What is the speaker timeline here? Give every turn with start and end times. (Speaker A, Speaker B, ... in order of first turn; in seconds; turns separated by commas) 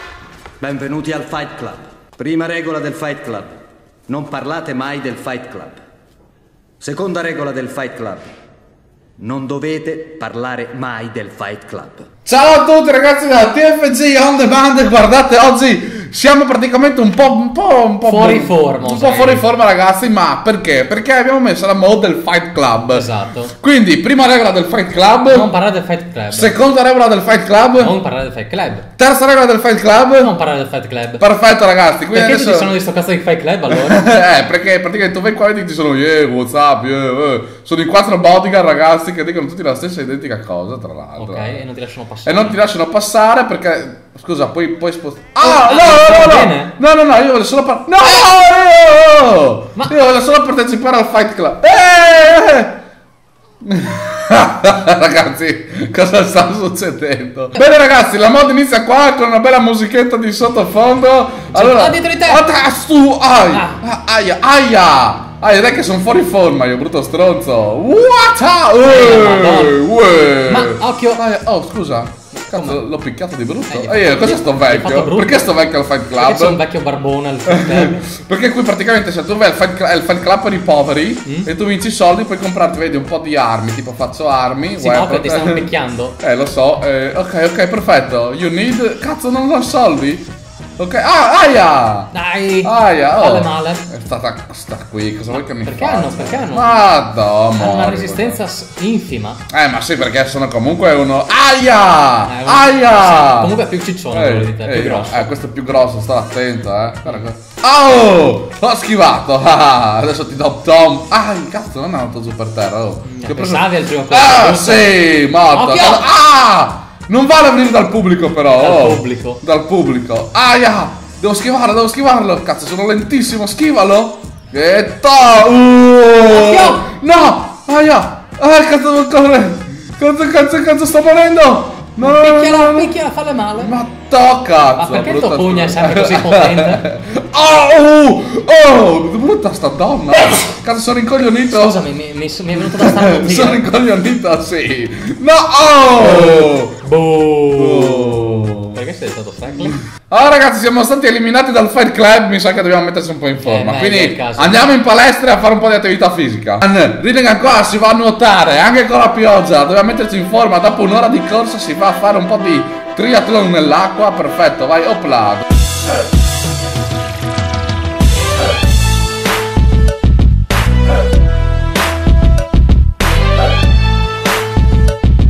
Speaker A: 0.6-3.5, Speaker A: 4.1-5.8, Speaker A: 6.8-8.3, Speaker A: 9.2-12.1, Speaker B: 12.2-25.5, Speaker C: 18.1-19.5, Speaker C: 22.9-23.5, Speaker C: 25.3-26.6, Speaker B: 26.3-27.9, Speaker C: 27.7-28.9, Speaker B: 29.0-30.3, Speaker C: 30.1-31.2, Speaker B: 31.2-32.8, Speaker C: 32.1-34.1, Speaker B: 33.7-41.6, Speaker C: 41.2-42.6, Speaker B: 42.2-52.8, Speaker C: 45.4-46.8, Speaker C: 48.0-48.3, Speaker B: 53.6-76.6, Speaker C: 61.5-62.5, Speaker C: 63.5-63.8, Speaker C: 68.8-69.8, Speaker C: 70.5-71.2, Speaker C: 72.3-72.8, Speaker C: 73.7-75.5, Speaker C: 76.2-78.1, Speaker B: 77.5-90.3, Speaker C: 84.8-86.2, Speaker B: 90.8-92.1, Speaker C: 92.1-93.9, Speaker B: 92.6-98.4, Speaker C: 95.3-96.8, Speaker C: 97.6-99.4, Speaker B: 99.5-103.6, Speaker C: 102.3-105.3, Speaker B: 104.1-132.9, Speaker C: 113.1-114.9, Speaker C: 115.5-116.1, Speaker C: 118.5-119.4, Speaker C: 126.2-126.9, Speaker C: 132.0-133.7, Speaker B: 133.6-141.8, Speaker C: 134.8-136.8, Speaker C: 141.5-143.7, Speaker B: 142.6-146.8, Speaker C: 145.9-149.8, Speaker B: 147.6-148.8, Speaker B: 149.6-165.4, Speaker C: 153.4-154.6